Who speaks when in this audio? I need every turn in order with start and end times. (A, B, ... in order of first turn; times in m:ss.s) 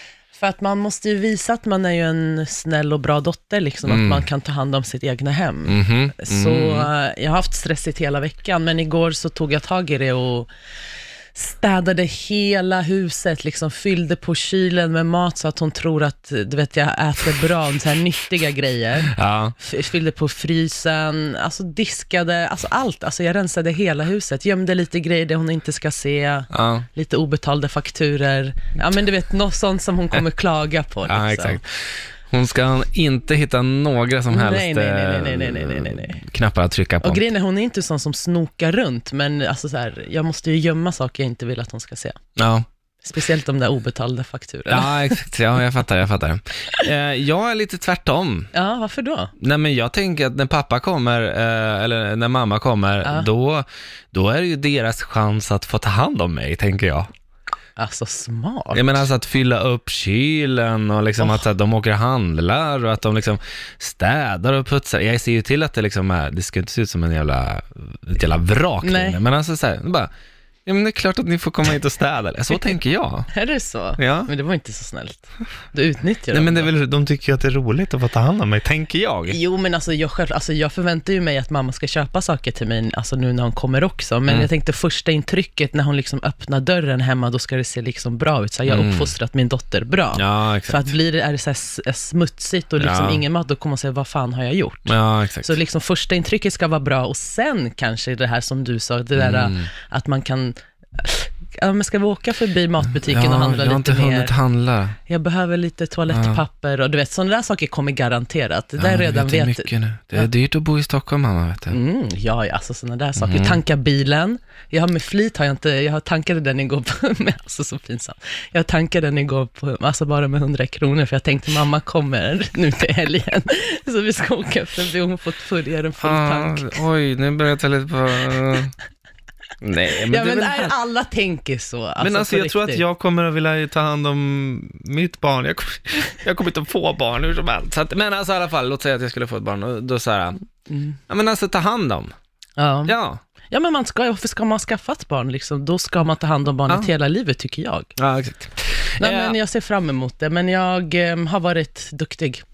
0:00.3-0:10.5 A
0:03.8-0:04.2 B
0:05.6-0:06.9 B
0:11.4-0:31.6 A
0:19.1-0:19.5 B
0:26.5-0:26.8 B
0:31.0-0:31.7 B
0:32.3-0:37.2 B
0:34.3-0:36.2 A
0:37.0-0:42.2 A
0:42.4-0:42.7 B
0:43.0-0:45.2 A
0:44.7-0:48.5 B
0:48.5-0:49.3 A
0:49.4-0:57.1 B
0:53.0-0:53.3 A
0:57.8-0:59.1 A
0:58.7-1:10.1 B
1:08.8-1:09.2 A
1:10.7-1:13.3 B
1:13.3-1:16.7 A
1:14.0-1:14.3 B
1:16.3-1:19.4 B
1:19.3-1:44.3 A
1:28.7-1:29.1 B
1:30.1-1:30.9 B
1:32.8-1:33.2 B
1:34.9-1:35.6 B
1:39.1-1:39.7 B
1:43.0-1:45.0 B
1:45.0-1:50.3 A
1:46.1-1:46.4 B
1:48.8-1:51.8 B
1:51.7-2:06.8 A
1:53.2-1:53.6 B
2:06.0-2:08.7 B
2:09.6-2:10.7 B
2:10.1-2:12.8 A
2:12.0-2:20.4 B
2:20.7-2:21.0 A
2:21.1-2:22.1 B
2:22.6-2:23.0 A
2:22.9-2:23.2 B
2:23.5-2:27.9 A
2:28.0-2:29.4 B
2:29.0-2:32.4 A